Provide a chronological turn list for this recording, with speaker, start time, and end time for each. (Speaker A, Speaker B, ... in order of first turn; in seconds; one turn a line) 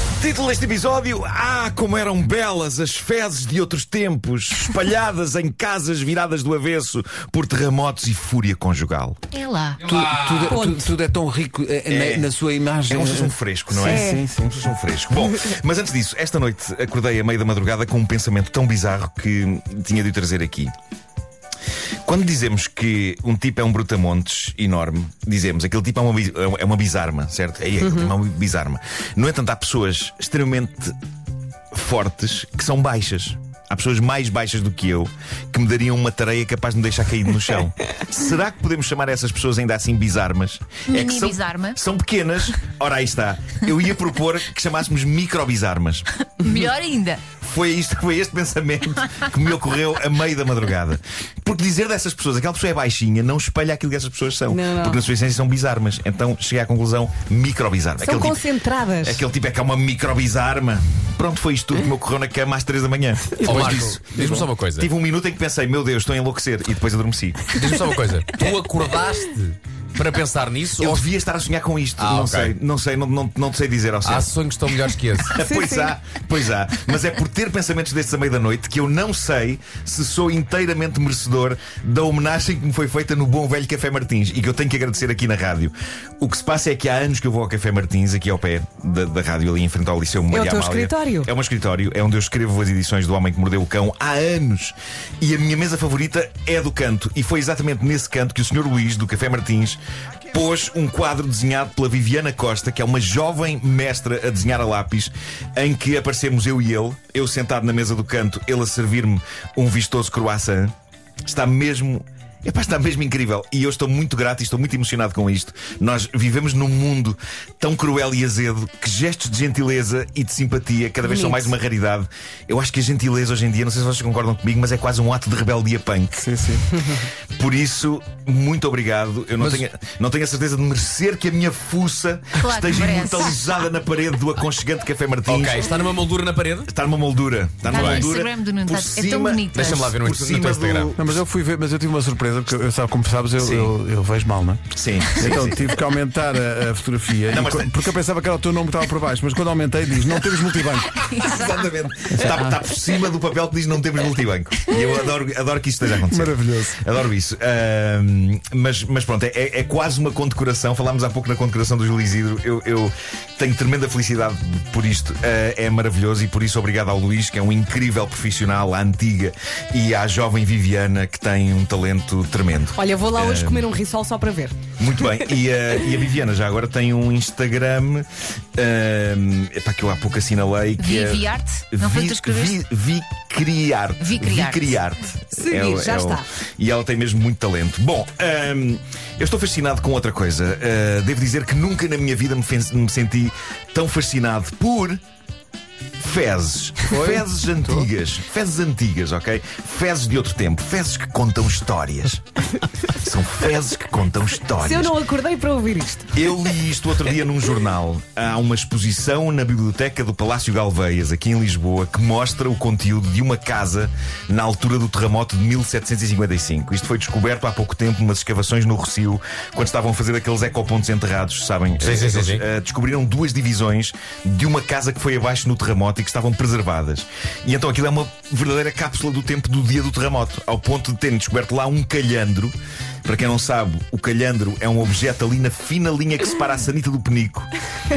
Speaker A: 0.2-9.2
Speaker B: 9.3-9.8
Speaker C: 9.8-14.5
Speaker D: 9.8-10.5
Speaker E: 10.5-10.8
Speaker A: 11.9-12.3
Speaker A: 12.9-20.7
Speaker E: 13.8-14.2
Speaker A: 22.0-30.9
Speaker E: 27.8-28.1
Speaker A: 31.7-46.1
Speaker B: 40.9-41.8
Speaker B: 46.4-47.3
Speaker A: 47.3-58.4
Speaker E: 54.5-55.0
Speaker E: 58.0-59.2
Speaker A: 59.0-67.5
Speaker E: 63.4-63.6
Speaker D: 63.4-64.9
Speaker D: 67.5-71.0
Speaker A: 70.8-74.3
Speaker D: 72.0-72.5
Speaker D: 74.0-75.3
Speaker A: 75.3-99.8
Speaker E: 75.4-75.9
Speaker E: 90.3-91.3
Speaker A: 100.3-110.7
Speaker A: 111.2-126.2
Speaker E: 121.0-121.5
Speaker C: 126.2-126.9
Speaker A: 127.3-135.7
Speaker B: 132.3-133.4
Speaker D: 135.3-136.7
Speaker A: 136.7-141.2
Speaker D: 137.7-138.1
Speaker B: 137.7-139.9
Speaker D: 139.5-140.9
Speaker C: 141.0-151.0
Speaker A: 143.4-143.7
Speaker A: 144.7-145.8
Speaker A: 147.3-147.8
Speaker A: 151.0-173.6
Speaker C: 152.2-152.5
Speaker C: 156.1-156.8
Speaker E: 172.7-174.6
Speaker A: 174.8-195.0
Speaker B: 180.8-182.6
Speaker B: 184.0-184.7
Speaker E: 185.3-186.2
Speaker A: 196.0-204.9
Speaker C: 196.9-197.8
Speaker E: 204.6-206.2
Speaker A: 206.1-237.5
Speaker D: 221.8-222.4